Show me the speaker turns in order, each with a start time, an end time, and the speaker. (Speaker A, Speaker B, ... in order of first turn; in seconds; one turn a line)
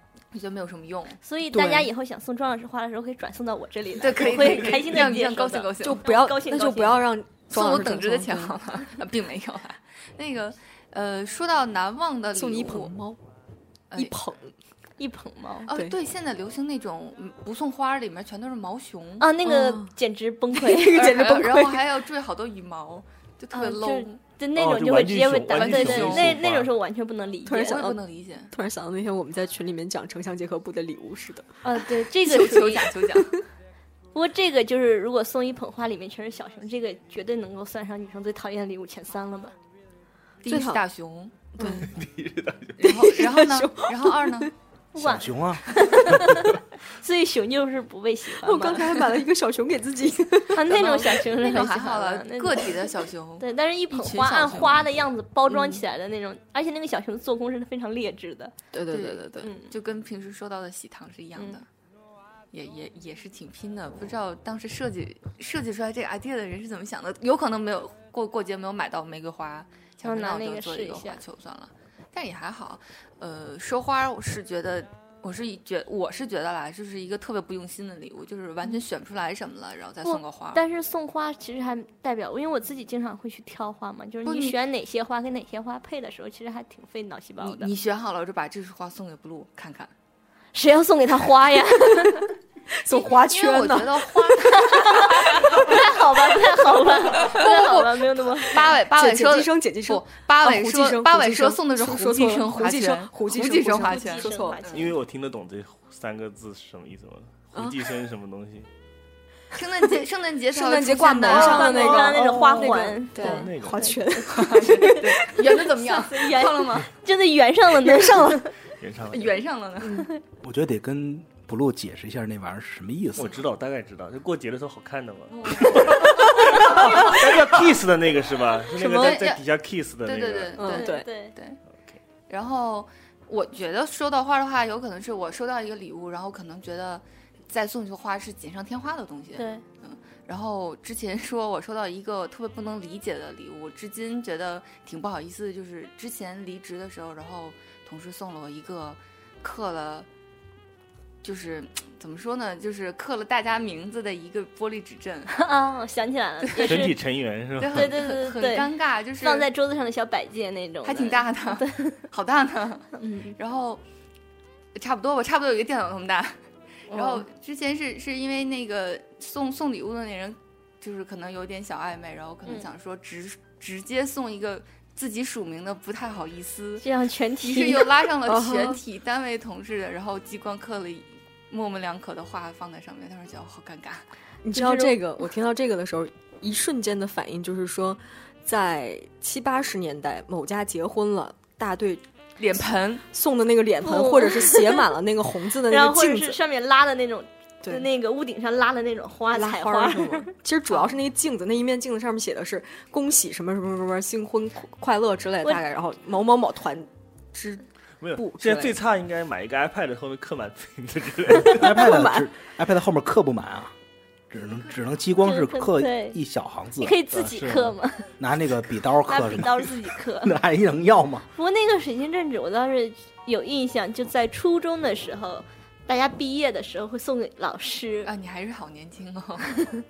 Speaker A: 0.3-1.2
Speaker B: 1.2-7.1
Speaker C: 1.5-1.9
Speaker A: 4.0-6.0
Speaker C: 5.8-8.6
Speaker A: 7.5-12.9
Speaker C: 12.3-13.2
Speaker C: 13.9-14.5
Speaker B: 15.0-15.7
Speaker A: 15.7-19.3
Speaker B: 19.2-21.1
Speaker C: 19.4-19.9
Speaker C: 20.5-21.9
Speaker A: 20.9-24.2
Speaker B: 23.5-27.9
Speaker D: 24.6-26.7
Speaker A: 25.5-26.3
Speaker C: 27.4-28.0
Speaker A: 27.6-28.5
Speaker C: 28.5-31.5
Speaker B: 31.6-33.0
Speaker A: 31.9-33.4
Speaker B: 34.1-39.5
Speaker A: 40.4-41.7
Speaker C: 40.5-40.8
Speaker C: 41.6-41.9
Speaker D: 41.7-42.8
Speaker A: 42.8-44.5
Speaker C: 42.8-44.5
Speaker B: 44.9-49.0
Speaker E: 45.0-46.3
Speaker C: 48.3-50.8
Speaker B: 50.5-52.8
Speaker A: 50.6-54.9
Speaker B: 53.4-58.5
Speaker C: 55.5-55.8
Speaker C: 58.7-59.5
Speaker A: 58.9-61.6
Speaker B: 59.4-59.7
Speaker A: 62.5-80.6
Speaker B: 70.0-71.2
Speaker B: 80.0-87.7
Speaker A: 84.2-84.5
Speaker A: 87.4-89.9
Speaker B: 90.5-92.3
Speaker C: 92.7-94.4
Speaker A: 93.0-96.4
Speaker B: 94.5-98.7
Speaker A: 97.1-104.9
Speaker C: 98.9-104.7
Speaker B: 103.8-105.0
Speaker D: 104.7-108.7
Speaker C: 107.5-107.8
Speaker A: 109.5-112.1
Speaker C: 110.5-115.6
Speaker B: 111.2-118.5
Speaker D: 111.7-112.6
Speaker D: 113.2-113.9
Speaker A: 114.3-116.9
Speaker C: 117.8-118.5
Speaker D: 118.8-119.4
Speaker A: 119.1-120.1
Speaker E: 120.4-123.4
Speaker D: 123.2-130.7
Speaker A: 125.3-127.1
Speaker C: 126.6-126.9
Speaker C: 128.8-129.2
Speaker A: 128.8-129.4
Speaker A: 130.0-131.6
Speaker C: 130.6-131.1
Speaker B: 130.7-131.3
Speaker A: 132.3-150.1
Speaker B: 139.3-139.6
Speaker A: 151.2-155.3
Speaker B: 155.3-157.0
Speaker A: 156.5-156.9
Speaker D: 156.6-158.1
Speaker A: 157.6-159.5
Speaker B: 157.7-162.0
Speaker A: 160.8-163.8
Speaker B: 162.9-163.4
Speaker A: 164.7-166.4
Speaker B: 166.9-167.2
Speaker A: 166.9-176.8
Speaker B: 176.8-178.0
Speaker A: 177.4-184.0
Speaker C: 178.2-178.8
Speaker C: 184.4-192.0
Speaker B: 184.5-185.0
Speaker A: 192.4-193.0
Speaker C: 193.1-196.4
Speaker B: 193.8-194.8
Speaker B: 195.7-200.3
Speaker C: 199.3-207.6
Speaker D: 208.0-211.8
Speaker C: 208.2-208.8
Speaker E: 211.5-213.7
Speaker C: 211.5-212.3
Speaker E: 214.3-221.3
Speaker B: 215.2-216.2
Speaker B: 216.8-218.1
Speaker B: 219.1-220.3
Speaker B: 221.3-228.1
Speaker A: 228.0-229.6